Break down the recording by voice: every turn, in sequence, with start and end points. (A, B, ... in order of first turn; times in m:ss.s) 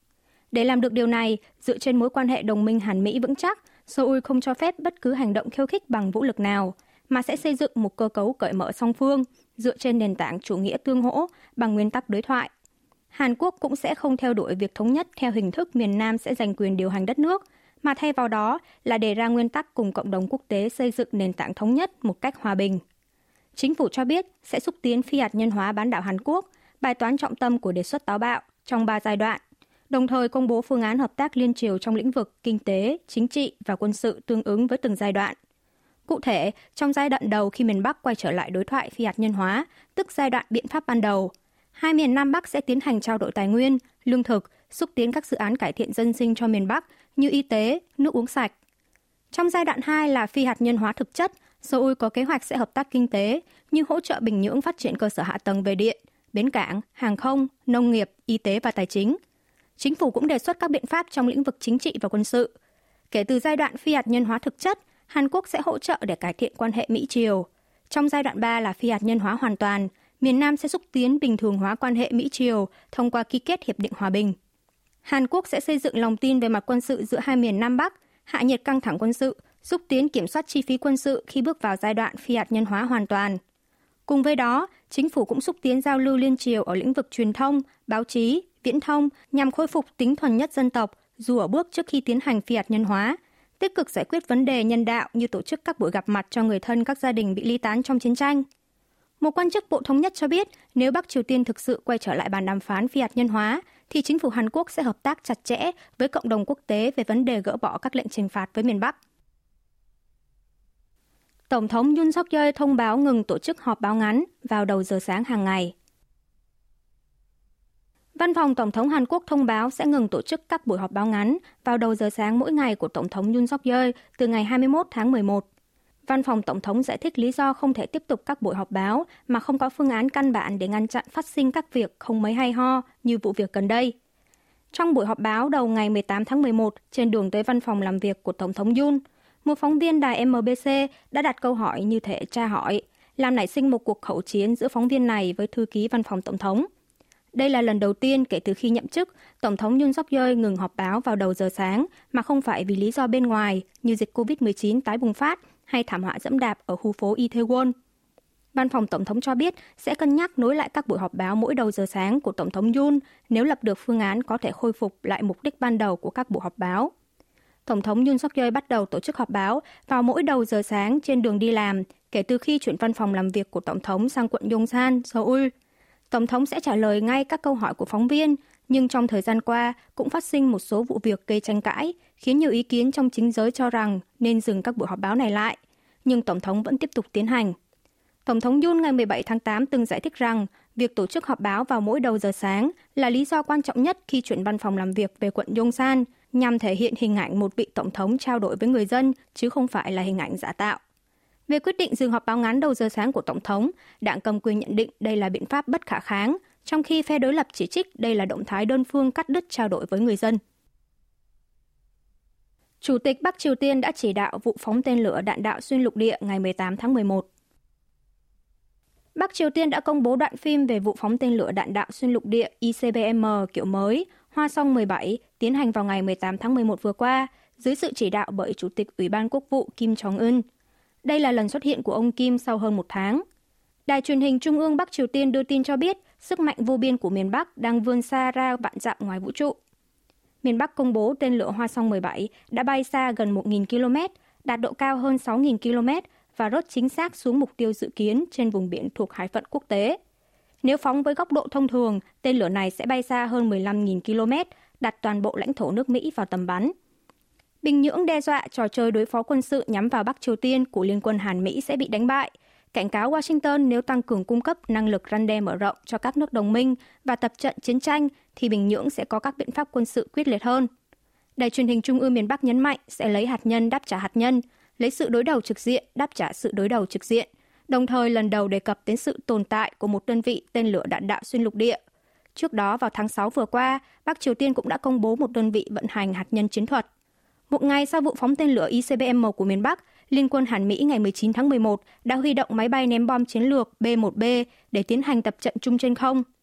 0:00.5-0:12.5 A
0:13.1-0:22.8 A
0:23.5-0:35.4 A
0:36.1-0:48.5 A
0:49.3-0:59.2 A
0:59.8-1:02.5 A
1:03.1-1:14.4 A
1:15.1-1:23.4 A
1:24.1-1:38.4 A
1:39.2-1:49.0 A
1:51.5-1:55.7 A
1:58.2-2:05.5 A
2:06.0-2:13.9 A
2:14.7-2:26.7 A
2:27.3-2:37.7 A
2:38.5-2:46.9 A
2:47.7-2:55.5 A
2:56.1-3:07.5 A
3:08.2-3:20.8 A
3:21.5-3:30.4 A
3:32.8-3:37.3 A
3:39.2-3:50.4 A
3:51.0-3:53.2 A
3:53.9-3:59.6 A
4:00.4-4:10.0 A
4:10.6-4:16.7 A
4:17.6-4:30.7 A
4:31.4-4:41.8 A
4:42.4-4:46.9 A
4:47.5-4:56.2 A